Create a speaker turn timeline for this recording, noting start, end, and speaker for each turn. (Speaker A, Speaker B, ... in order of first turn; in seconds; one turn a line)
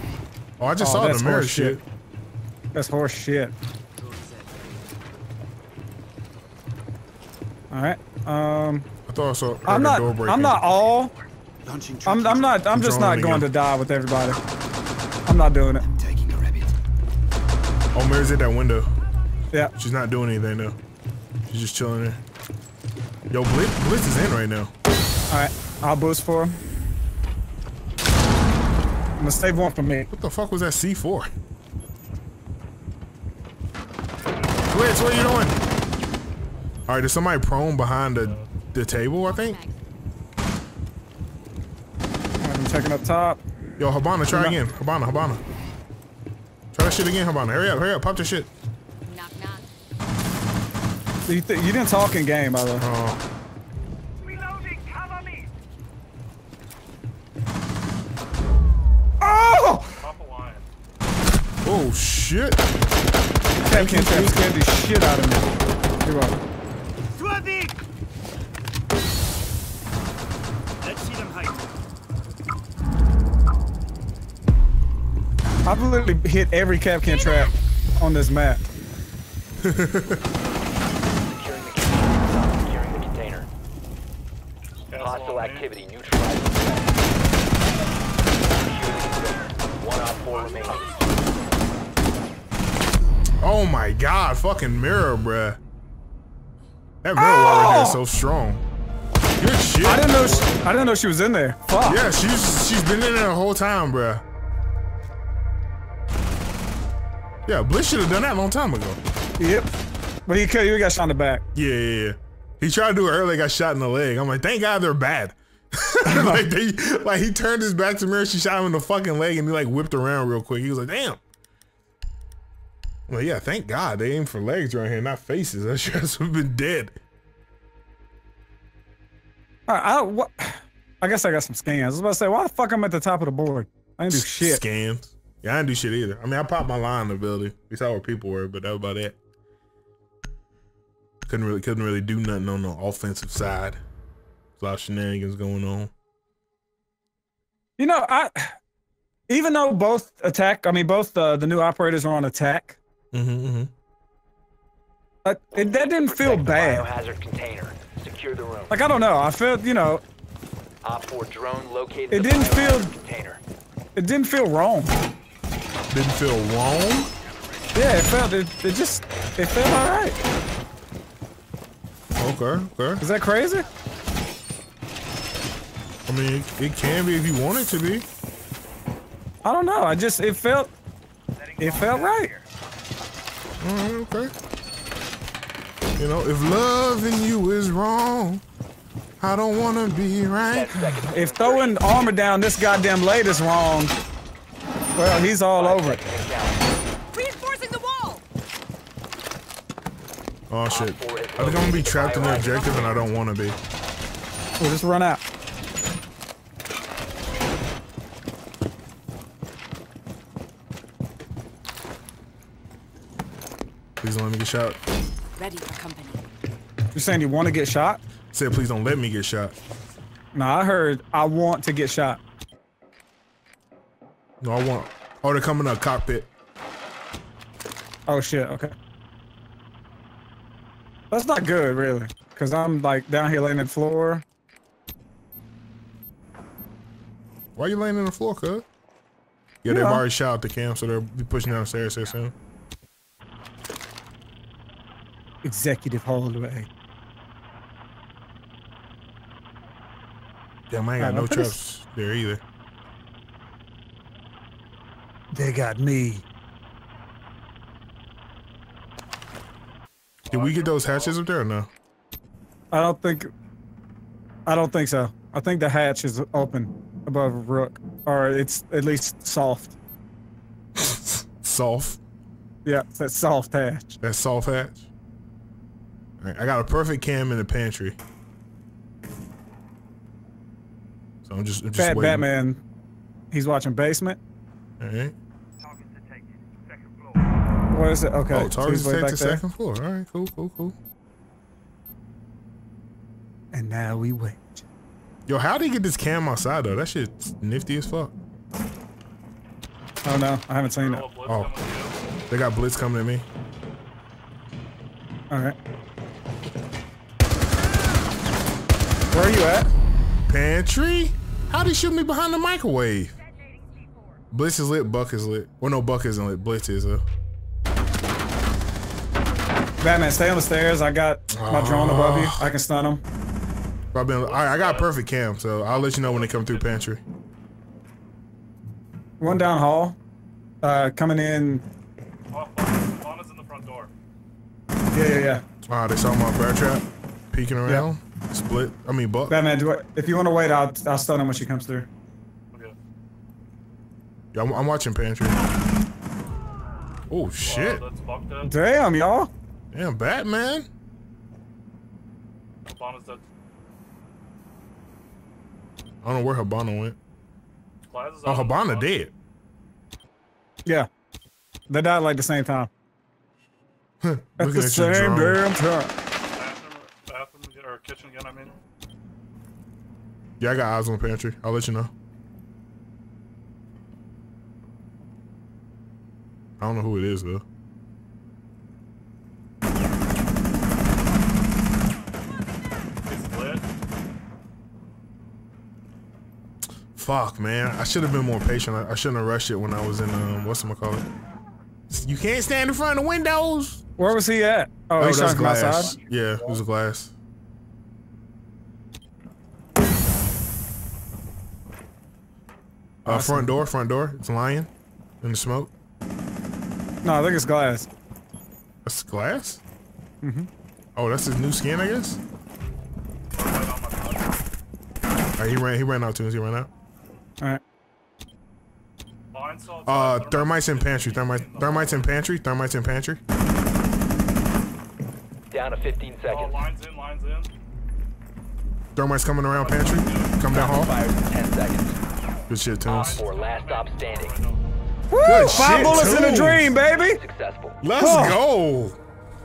Speaker A: 0.6-1.8
Speaker B: 0.8-1.8
Speaker B: 2.7-3.5
Speaker C: 4.0-4.7
Speaker B: 7.7-8.9
Speaker A: 9.1-10.6
Speaker B: 9.7-11.1
Speaker C: 11.6-12.6
Speaker B: 12.0-14.4
Speaker A: 12.7-13.5
Speaker B: 15.2-15.8
Speaker C: 15.8-16.7
Speaker A: 17.9-18.9
Speaker A: 19.7-20.8
Speaker A: 21.5-22.2
Speaker A: 23.3-24.7
Speaker B: 25.3-26.6
Speaker B: 29.2-30.1
Speaker A: 30.1-31.3
Speaker A: 34.7-35.6
Speaker A: 36.9-39.6
Speaker D: 38.2-38.5
Speaker E: 39.3-39.8
Speaker B: 42.4-43.4
Speaker A: 43.8-45.4
Speaker B: 44.3-44.6
Speaker A: 46.7-48.5
Speaker E: 49.0-49.6
Speaker B: 51.2-52.9
Speaker A: 52.8-53.2
Speaker B: 59.2-59.9
Speaker D: 60.0-60.7
Speaker A: 61.6-62.6
Speaker B: 63.6-65.5
Speaker A: 63.6-64.5
Speaker B: 66.0-66.4
Speaker C: 67.1-67.8
Speaker C: 70.8-71.6
Speaker B: 75.6-78.6
Speaker A: 79.6-80.2
Speaker F: 81.2-83.5
Speaker D: 84.9-85.7
Speaker F: 85.0-87.0
Speaker F: 88.6-91.0
Speaker A: 93.4-95.6
Speaker A: 97.0-98.6
Speaker B: 97.2-98.0
Speaker A: 99.4-100.5
Speaker B: 99.8-102.0
Speaker A: 101.8-104.2
Speaker A: 107.5-109.0
Speaker B: 109.4-109.7
Speaker B: 110.2-111.4
Speaker A: 111.5-121.2
Speaker B: 116.0-116.4
Speaker A: 123.1-127.0
Speaker B: 129.7-134.6
Speaker A: 134.1-139.2
Speaker A: 141.2-143.8
Speaker A: 144.6-145.9
Speaker B: 147.8-148.6
Speaker B: 149.3-152.8
Speaker A: 153.1-153.7
Speaker B: 155.2-156.8
Speaker F: 155.5-158.8
Speaker B: 158.7-160.0
Speaker F: 160.8-163.4
Speaker B: 162.1-162.9
Speaker B: 163.9-164.9
Speaker A: 165.9-167.1
Speaker B: 167.7-170.2
Speaker A: 172.2-173.0
Speaker B: 173.0-173.7
Speaker A: 176.1-178.1
Speaker B: 179.4-180.7
Speaker B: 181.6-182.4
Speaker A: 183.6-184.3
Speaker A: 186.0-188.4
Speaker A: 189.2-190.9
Speaker F: 190.5-192.1
Speaker B: 190.8-193.9
Speaker B: 194.9-196.0
Speaker F: 195.6-196.6
Speaker E: 197.1-198.2
Speaker A: 200.5-203.6
Speaker F: 200.7-203.1
Speaker B: 204.6-205.2
Speaker A: 214.0-214.8
Speaker E: 215.4-216.3
Speaker B: 216.9-218.0
Speaker A: 218.3-219.6
Speaker B: 220.3-222.2
Speaker A: 224.4-226.3
Speaker B: 228.1-228.7
Speaker B: 231.1-234.2
Speaker A: 237.6-238.7
Speaker A: 239.6-242.3
Speaker B: 239.7-240.0
Speaker B: 245.4-246.7
Speaker A: 250.7-252.4
Speaker B: 251.0-251.6
Speaker B: 255.3-256.2
Speaker D: 260.3-261.2
Speaker A: 260.3-261.7
Speaker B: 262.7-263.3
Speaker B: 264.5-269.8
Speaker A: 270.7-272.0
Speaker B: 272.6-274.0
Speaker A: 274.0-274.9
Speaker A: 276.2-278.0
Speaker A: 281.2-282.3
Speaker B: 281.8-282.6
Speaker B: 283.3-284.2
Speaker A: 284.8-285.1
Speaker C: 285.7-286.9
Speaker B: 287.7-289.4
Speaker A: 288.3-290.8
Speaker B: 293.5-294.6
Speaker A: 295.3-298.1
Speaker B: 300.0-301.1
Speaker D: 300.7-301.9
Speaker A: 301.2-301.5
Speaker A: 302.3-303.2
Speaker B: 309.1-309.7
Speaker A: 310.3-313.1
Speaker A: 314.3-317.0
Speaker B: 319.8-323.0
Speaker A: 321.3-322.5
Speaker A: 323.9-327.0
Speaker D: 324.2-324.9
Speaker D: 325.7-326.8
Speaker B: 329.2-330.0
Speaker B: 330.6-331.6
Speaker D: 332.3-333.9
Speaker B: 334.9-335.4
Speaker A: 335.6-339.4
Speaker B: 339.3-341.9
Speaker A: 344.3-345.4
Speaker A: 347.1-347.8
Speaker D: 347.4-348.5
Speaker B: 348.4-349.3
Speaker A: 349.7-350.7
Speaker D: 352.6-353.2
Speaker A: 356.0-357.0
Speaker D: 357.9-359.0
Speaker A: 358.2-359.1
Speaker B: 361.7-362.7
Speaker A: 364.0-365.4
Speaker B: 364.4-365.9
Speaker D: 366.2-368.6
Speaker A: 370.4-371.9
Speaker A: 376.6-377.4
Speaker D: 383.0-383.6
Speaker A: 386.9-391.1
Speaker A: 391.9-394.2
Speaker B: 394.0-396.0
Speaker A: 394.9-397.1
Speaker A: 403.0-404.7
Speaker B: 403.1-403.5
Speaker A: 405.2-405.7
Speaker B: 407.0-407.9
Speaker A: 408.8-409.6
Speaker B: 410.2-410.5
Speaker A: 410.9-412.2
Speaker D: 413.3-414.4
Speaker A: 415.4-416.7
Speaker D: 419.3-422.1
Speaker A: 419.9-423.2
Speaker F: 425.5-426.6
Speaker D: 426.2-427.5
Speaker A: 428.9-430.9
Speaker D: 429.5-430.5
Speaker F: 430.5-432.0
Speaker A: 432.5-433.2
Speaker D: 432.8-434.6
Speaker F: 432.9-434.4
Speaker B: 435.1-437.2
Speaker A: 435.2-436.7
Speaker F: 435.6-437.8
Speaker A: 437.8-439.0
Speaker B: 438.0-438.4